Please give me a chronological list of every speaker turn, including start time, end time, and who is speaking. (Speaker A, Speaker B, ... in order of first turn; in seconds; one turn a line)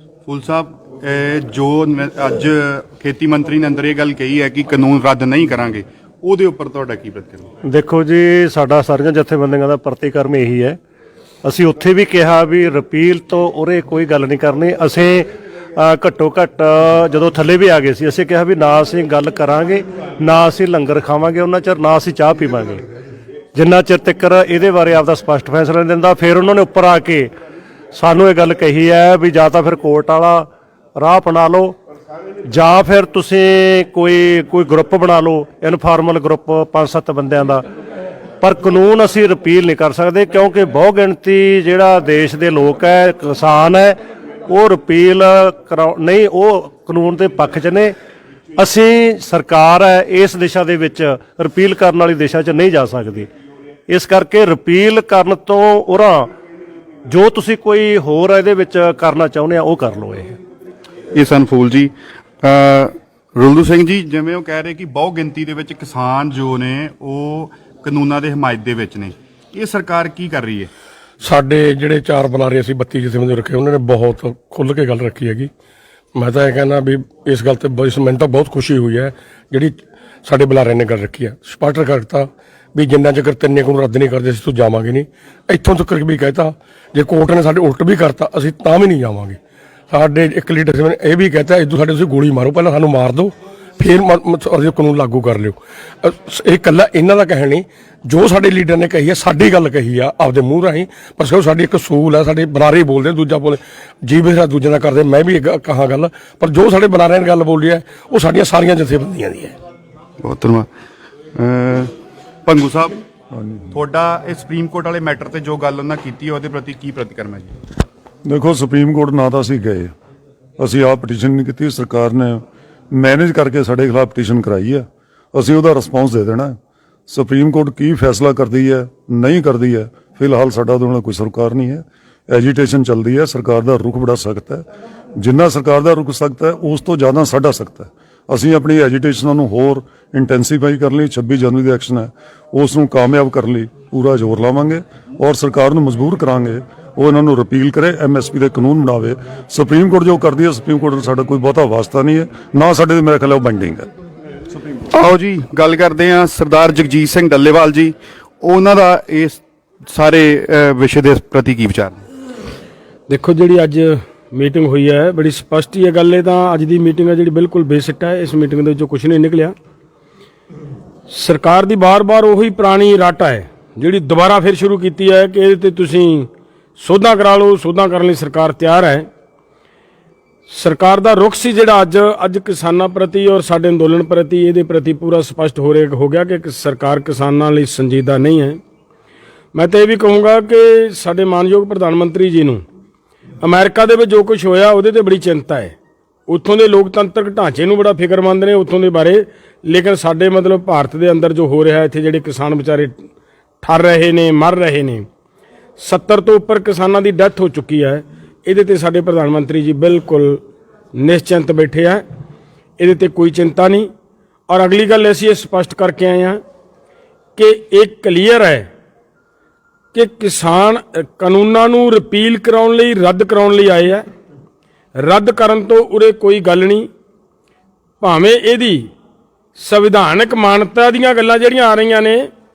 Speaker A: 0.3-7.5
Speaker B: 7.6-10.8
Speaker B: 11.4-22.8
Speaker B: 23.6-27.4
Speaker B: 27.9-31.8
Speaker B: 32.4-37.7
Speaker B: 38.4-48.0
Speaker B: 48.6-53.3
Speaker B: 53.9-56.3
Speaker B: 57.1-60.4
Speaker A: 61.1-70.7
Speaker C: 71.2-75.5
Speaker C: 76.1-89.4
Speaker C: 89.9-109.6
Speaker A: 110.2-110.7
Speaker A: 111.3-111.9
Speaker A: 112.5-113.0
Speaker D: 113.3-113.7
Speaker A: 113.7-117.5
Speaker D: 118.2-119.9
Speaker D: 120.6-126.6
Speaker D: 127.1-153.9
Speaker A: 154.9-162.0
Speaker E: 163.1-169.6
Speaker E: 171.1-179.1
Speaker E: 180.5-188.6
Speaker E: 189.6-192.6
Speaker E: 193.4-195.8
Speaker E: 196.3-203.0
Speaker E: 203.6-205.1
Speaker E: 205.8-210.4
Speaker E: 211.0-212.0
Speaker E: 212.8-213.9
Speaker E: 214.5-216.4
Speaker E: 217.4-218.7
Speaker E: 219.9-224.1
Speaker E: 225.0-226.9
Speaker E: 228.0-228.9
Speaker E: 229.6-232.3